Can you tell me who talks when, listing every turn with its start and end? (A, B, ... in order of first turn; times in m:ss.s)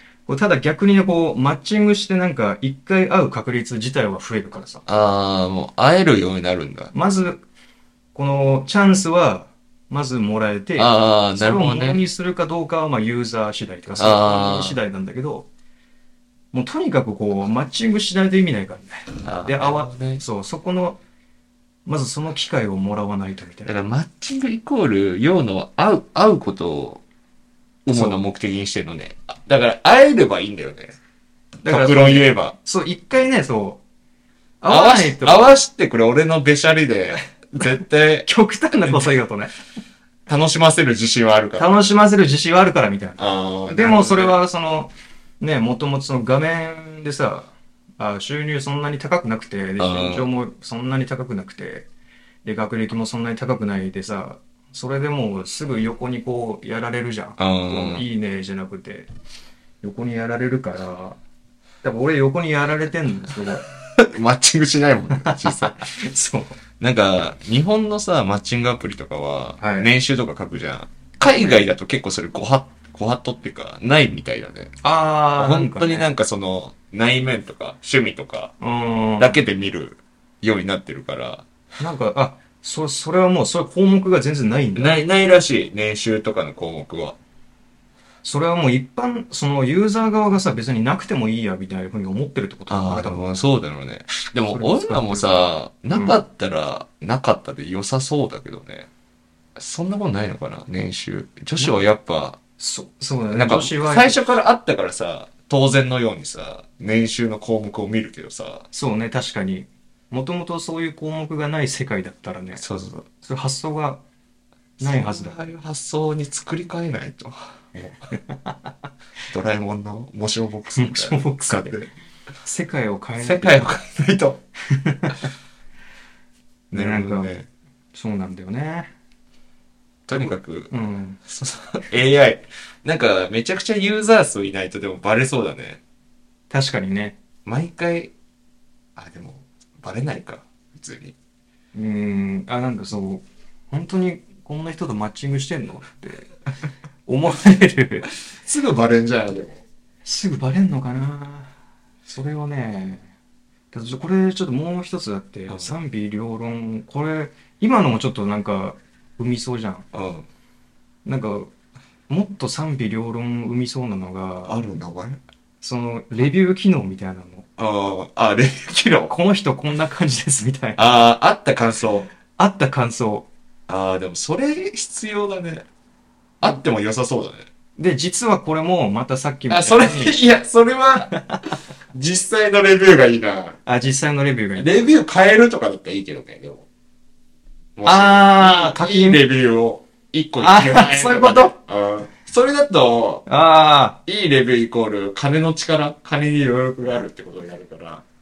0:00.3-0:04.8 A
0:04.8-0:06.9 B
0:06.9-0:07.4 A
0:08.1-0:15.5 A
0:10.8-0:12.0 B
0:14.0-0:14.8 B
0:16.5-0:21.0 A
0:19.2-0:20.2 B
0:21.8-0:23.7 A
0:23.6-0:27.0 B
0:27.8-0:30.9 B
0:27.9-0:28.2 A
0:31.6-0:33.8 A
0:31.6-0:32.5 B
0:34.6-0:35.6 A
0:34.7-0:38.3 B
0:38.2-0:39.5 A
0:40.3-0:41.8 B
0:41.6-0:51.9 A
0:43.2-0:44.4 B
0:49.8-0:50.3 B
0:52.4-0:59.1 A
0:57.4-0:58.0 B
0:59.8-1:01.2 A
1:01.8-1:03.7 A
1:04.0-1:05.8 B
1:05.1-1:06.6 A
1:06.8-1:14.7 B
1:09.6-1:09.9 A
1:14.8-1:16.0 A
1:15.4-1:18.5 B
1:18.6-1:19.4 A
1:19.2-1:21.4 B
1:21.8-1:25.0 A
1:24.8-1:27.2 B
1:28.2-1:33.4 A
1:32.7-1:38.9 B
1:34.5-1:36.2 A
1:39.6-1:42.4 B
1:42.6-1:44.2 A
1:43.3-1:48.6 B
1:48.7-1:52.6 A
1:52.5-1:53.0 B
1:53.2-1:54.0 A
1:54.8-1:55.4 A
1:54.8-1:58.0 B
1:59.3-2:01.9 B
2:00.8-2:01.8 A
2:02.4-2:03.7 A
2:03.2-2:04.4 B
2:04.7-2:05.2 A
2:06.7-2:07.3 A
2:06.7-2:07.4 B
2:07.9-2:08.9 A
2:10.1-2:10.7 B
2:10.1-2:11.2 A
2:11.3-2:15.8 B
2:16.5-2:17.2 A
2:17.4-2:18.1 B
2:19.0-2:21.1 B
2:21.7-2:26.3 A
2:27.0-2:28.1 A
2:28.4-2:29.6 B
2:30.0-2:31.5 A
2:32.1-2:33.0 A
2:33.7-2:39.8 A
2:39.9-2:40.2 B
2:41.0-2:41.5 A
2:42.1-2:44.5 A
2:44.4-2:45.2 B
2:45.6-2:47.4 A
2:47.6-2:49.1 B
2:49.1-2:51.0 A
2:50.8-2:52.1 B
2:52.4-2:53.3 A
2:53.7-2:55.6 B
2:56.4-2:57.5 B
2:57.8-3:00.2 A
2:59.5-3:01.1 B
3:01.1-3:01.4 A
3:01.9-3:03.6 B
3:03.6-3:04.8 A
3:04.6-3:06.6 B
3:07.8-3:13.2 B
3:07.8-3:09.2 A
3:10.4-3:11.5 A
3:13.3-3:14.0 A
3:14.1-3:18.0 B